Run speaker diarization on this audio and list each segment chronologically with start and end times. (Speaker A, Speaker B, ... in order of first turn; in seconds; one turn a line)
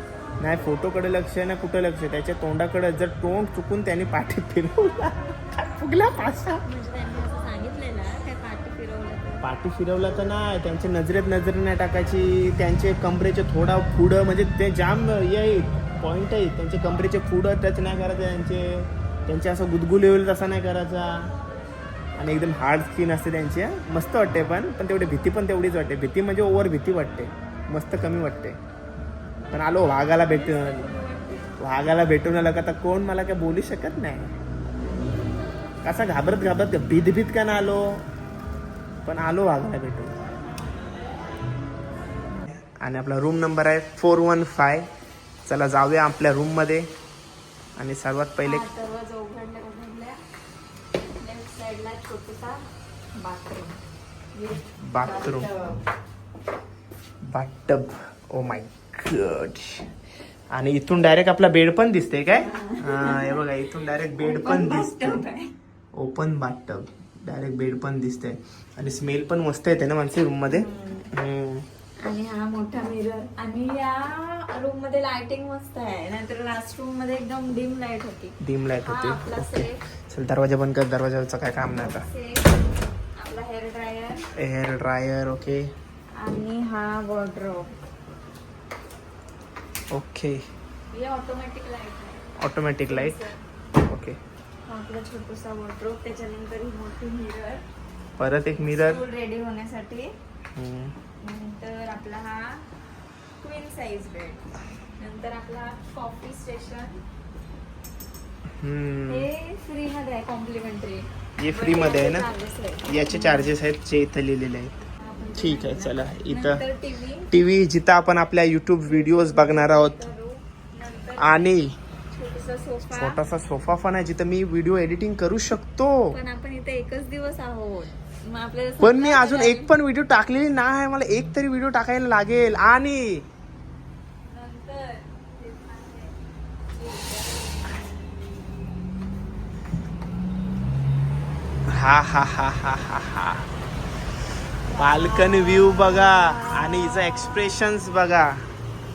Speaker A: 0.4-6.6
Speaker B: 6.6-9.5
Speaker A: 9.4-21.3
Speaker A: 22.2-28.6
Speaker A: 29.5-30.9
Speaker B: 30.2-31.5
Speaker A: 31.6-34.3
Speaker A: 35.8-38.0
Speaker A: 39.1-40.1
Speaker A: 42.4-44.9
Speaker A: 45.5-46.9
Speaker A: 47.8-48.7
Speaker B: 48.5-50.2
Speaker B: 51.1-53.8
Speaker B: 54.3-55.8
Speaker A: 54.8-55.5
Speaker A: 57.2-59.9
Speaker A: 60.5-65.2
Speaker B: 62.3-63.5
Speaker B: 64.2-65.5
Speaker A: 65.9-71.7
Speaker B: 70.5-71.1
Speaker B: 72.0-79.8
Speaker A: 78.4-82.1
Speaker B: 81.9-84.3
Speaker A: 84.4-85.7
Speaker B: 86.2-87.7
Speaker A: 89.9-90.4
Speaker B: 90.9-92.3
Speaker A: 92.4-93.2
Speaker B: 92.9-93.4
Speaker A: 93.8-94.2
Speaker B: 94.7-97.7
Speaker A: 98.2-99.0
Speaker B: 98.7-100.1
Speaker A: 100.5-101.0
Speaker B: 101.2-102.7
Speaker B: 103.4-107.0
Speaker A: 108.6-109.3
Speaker B: 109.1-113.5
Speaker A: 111.4-112.3
Speaker A: 112.9-114.7
Speaker B: 115.0-117.3
Speaker A: 115.3-116.6
Speaker A: 117.3-120.1
Speaker B: 118.8-123.2
Speaker A: 121.2-121.8
Speaker A: 122.9-126.2
Speaker B: 126.1-129.7
Speaker A: 128.8-133.3
Speaker B: 134.3-136.2
Speaker B: 136.7-137.8
Speaker A: 141.7-143.5
Speaker B: 144.7-147.5
Speaker A: 144.8-148.5